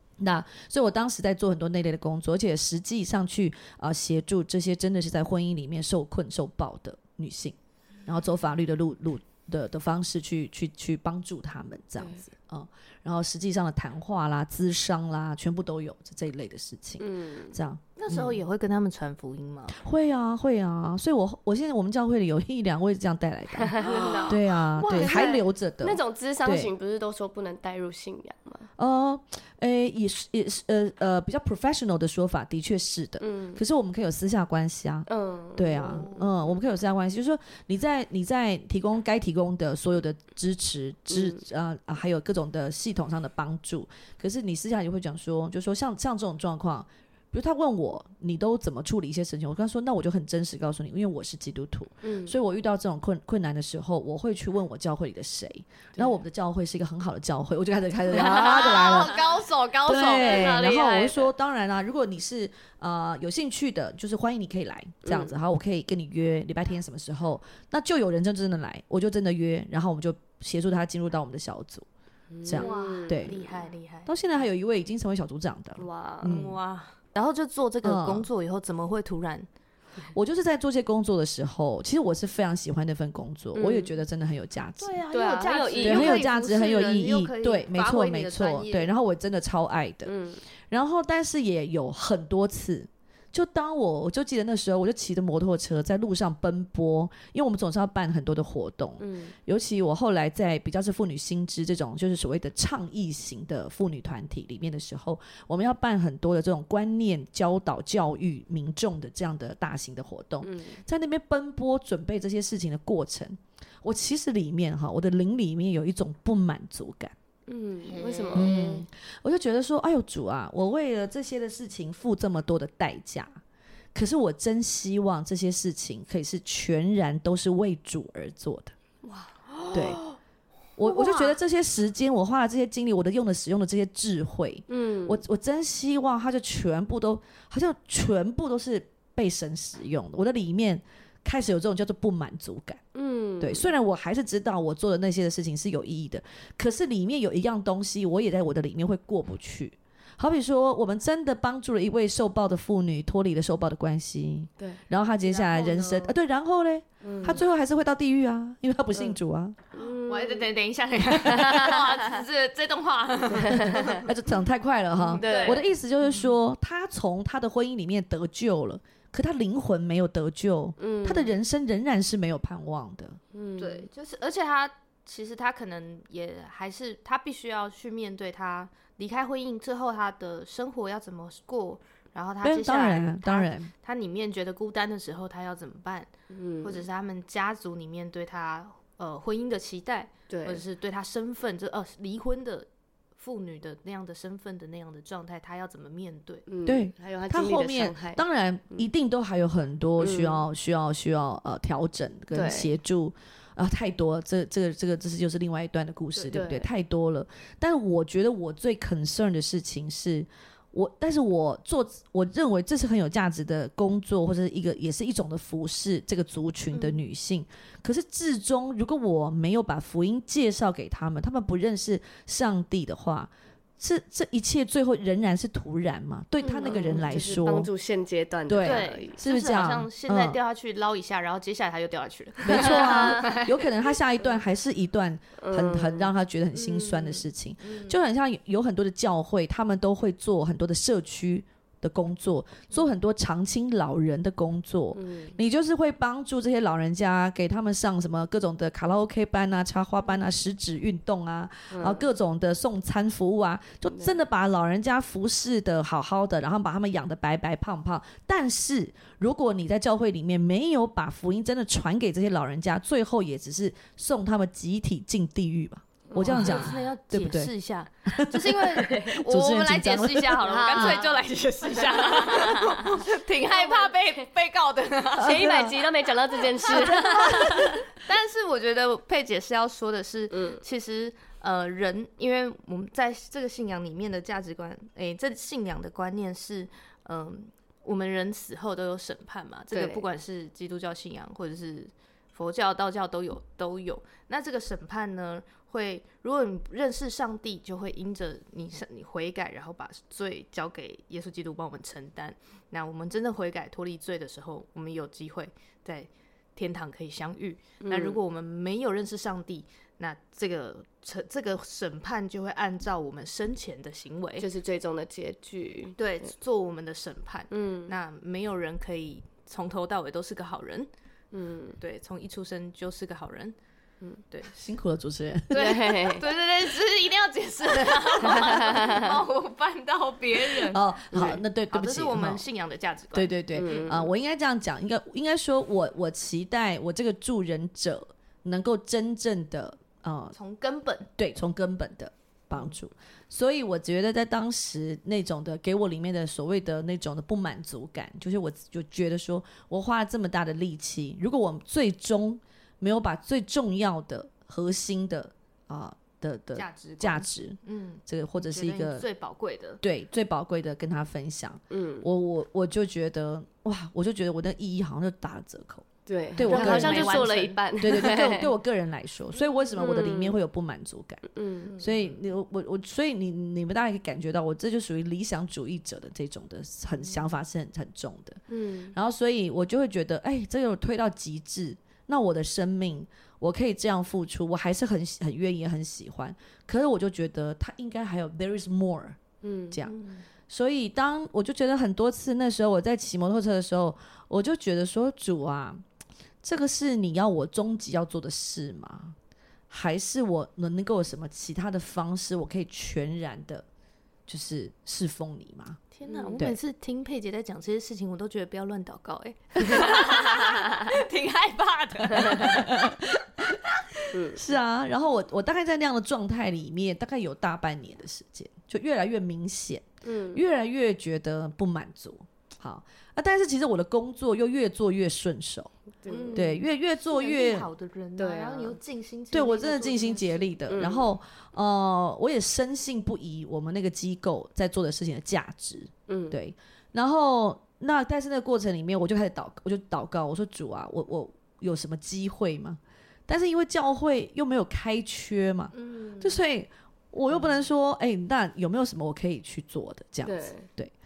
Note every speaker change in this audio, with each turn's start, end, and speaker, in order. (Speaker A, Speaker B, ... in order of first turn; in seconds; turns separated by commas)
Speaker A: 0.2-18.4, Speaker B: 17.0-17.6, Speaker C: 18.0-19.8, Speaker A: 19.7-26.7, Speaker B: 23.6-28.7, Speaker C: 23.8-25.4, Speaker A: 28.8-59.2, Speaker B: 33.2-33.6, Speaker B: 35.1-36.1, Speaker C: 35.8-36.3, Speaker B: 41.1-41.4, Speaker B: 52.0-52.3, Speaker C: 58.1-60.8, Speaker B: 58.3-59.2, Speaker A: 59.9-71.9, Speaker B: 60.0-61.3, Speaker B: 65.0-65.3, Speaker B: 72.3-73.5, Speaker A: 72.4-73.4, Speaker C: 72.5-74.1, Speaker A: 74.1-76.6, Speaker B: 75.8-76.4, Speaker C: 76.2-79.5, Speaker A: 77.8-78.3, Speaker A: 80.1-85.0, Speaker B: 83.5-83.9, Speaker C: 84.8-88.9, Speaker B: 85.1-86.3, Speaker A: 85.8-90.2, Speaker B: 90.0-90.4, Speaker A: 90.7-117.2, Speaker B: 99.0-99.3, Speaker B: 110.4-110.8, Speaker B: 117.5-118.8, Speaker C: 117.9-118.6, Speaker A: 118.3-123.4, Speaker A: 124.0-128.7, Speaker C: 129.5-130.2, Speaker A: 129.7-130.0, Speaker A: 130.8-142.8, Speaker C: 130.8-131.4, Speaker B: 134.7-135.2, Speaker B: 142.9-143.7, Speaker A: 143.4-159.6, Speaker C: 155.2-156.2, Speaker B: 157.0-157.4, Speaker B: 159.8-160.5, Speaker C: 159.8-164.0, Speaker B: 161.3-162.0, Speaker B: 163.4-163.9, Speaker A: 163.9-173.2, Speaker C: 165.0-165.6, Speaker B: 165.2-165.7, Speaker B: 170.8-171.3, Speaker B: 173.3-173.9, Speaker C: 173.6-196.4, Speaker A: 182.4-183.7, Speaker B: 186.3-186.8, Speaker B: 190.3-190.6, Speaker B: 196.5-198.2, Speaker A: 196.7-227.7, Speaker B: 200.0-200.4, Speaker B: 202.3-202.7, Speaker B: 206.3-206.7, Speaker C: 216.7-217.0, Speaker C: 226.4-227.1, Speaker B: 226.6-229.2, Speaker A: 228.5-230.4, Speaker C: 228.6-233.4, Speaker A: 232.4-267.5, Speaker B: 232.5-233.5, Speaker B: 235.4-236.1, Speaker C: 236.6-238.0, Speaker B: 244.9-245.3, Speaker B: 251.7-252.1, Speaker B: 253.9-254.2, Speaker B: 266.1-266.8, Speaker C: 266.1-275.5, Speaker A: 268.1-271.1, Speaker B: 268.7-269.2, Speaker B: 270.4-274.1, Speaker B: 275.1-277.8, Speaker A: 275.2-275.8, Speaker C: 276.6-314.5, Speaker A: 276.7-277.8, Speaker B: 280.3-280.6, Speaker B: 289.7-290.1, Speaker B: 307.8-308.2, Speaker B: 314.4-316.0, Speaker C: 316.0-320.9, Speaker B: 317.5-317.9, Speaker B: 321.3-321.8, Speaker C: 321.8-323.6, Speaker A: 324.6-325.9, Speaker C: 325.5-333.9, Speaker B: 325.5-326.2, Speaker B: 328.4-329.1, Speaker A: 330.5-332.4, Speaker B: 331.1-331.4, Speaker A: 333.1-340.4, Speaker B: 333.5-334.1, Speaker C: 340.3-341.1, Speaker A: 341.1-359.0, Speaker C: 356.6-359.8, Speaker A: 359.8-371.2, Speaker B: 361.7-362.1, Speaker B: 366.1-368.5, Speaker C: 366.4-367.6, Speaker C: 369.4-369.7, Speaker B: 369.8-370.4, Speaker B: 371.3-371.7, Speaker C: 371.7-372.1, Speaker A: 371.8-389.9, Speaker B: 378.5-378.9, Speaker B: 389.4-389.8, Speaker C: 389.8-390.2, Speaker A: 390.5-395.8, Speaker A: 396.4-399.2, Speaker A: 399.7-403.6, Speaker A: 404.3-405.8, Speaker C: 405.9-412.8, Speaker B: 406.1-406.4, Speaker B: 409.8-410.6, Speaker B: 412.2-412.6, Speaker A: 412.4-413.6, Speaker B: 414.1-414.4, Speaker A: 414.2-425.7, Speaker B: 420.0-420.4, Speaker B: 426.0-426.6, Speaker C: 426.1-430.6, Speaker A: 426.3-427.7, Speaker B: 428.2-428.8, Speaker A: 429.3-450.9, Speaker B: 430.7-431.1, Speaker B: 436.1-436.4, Speaker C: 445.7-446.4, Speaker B: 450.2-450.7